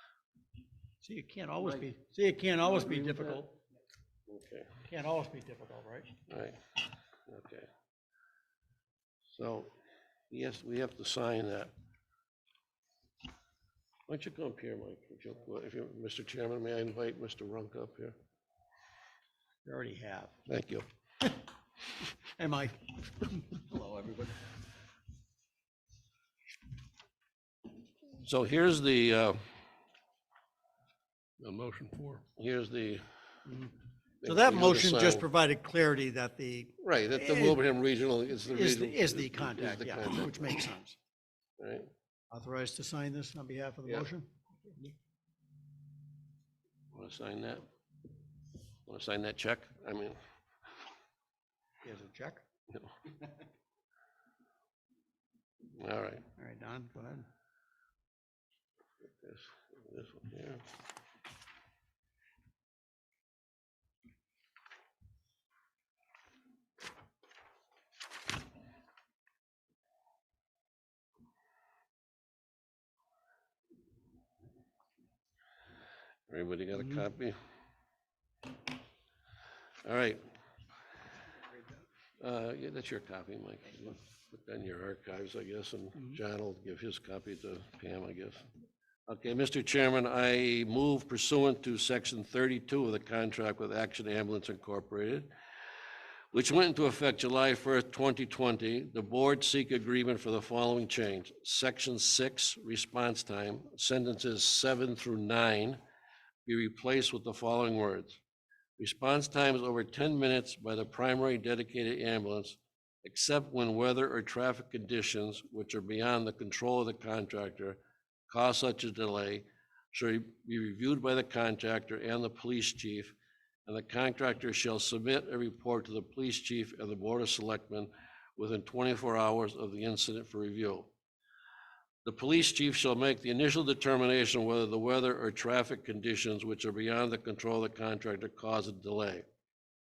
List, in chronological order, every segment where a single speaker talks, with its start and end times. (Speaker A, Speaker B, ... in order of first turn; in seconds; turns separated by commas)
Speaker A: 1.0-3.6, Speaker B: 2.7-3.4, Speaker B: 4.3-4.7, Speaker A: 4.8-6.2, Speaker B: 6.3-6.6, Speaker B: 7.3-7.7, Speaker B: 9.3-9.7, Speaker B: 10.3-11.7, Speaker B: 14.1-18.1, Speaker A: 19.6-20.4, Speaker B: 20.5-20.9, Speaker A: 22.2-24.2, Speaker B: 28.2-29.4, Speaker B: 31.4-33.0, Speaker A: 33.5-33.7, Speaker B: 34.2-35.3, Speaker A: 34.2-37.6, Speaker B: 36.8-40.7, Speaker A: 38.5-41.0, Speaker B: 41.6-41.9, Speaker A: 42.3-44.3, Speaker B: 46.9-47.7, Speaker B: 48.9-50.2, Speaker A: 51.8-52.4, Speaker B: 55.8-56.2, Speaker A: 56.4-57.3, Speaker B: 59.0-60.6, Speaker B: 76.3-77.4, Speaker B: 79.8-80.2, Speaker B: 82.2-88.5, Speaker B: 89.1-95.3, Speaker B: 96.3-105.8, Speaker B: 106.5-108.2, Speaker B: 108.8-130.9, Speaker B: 132.1-139.3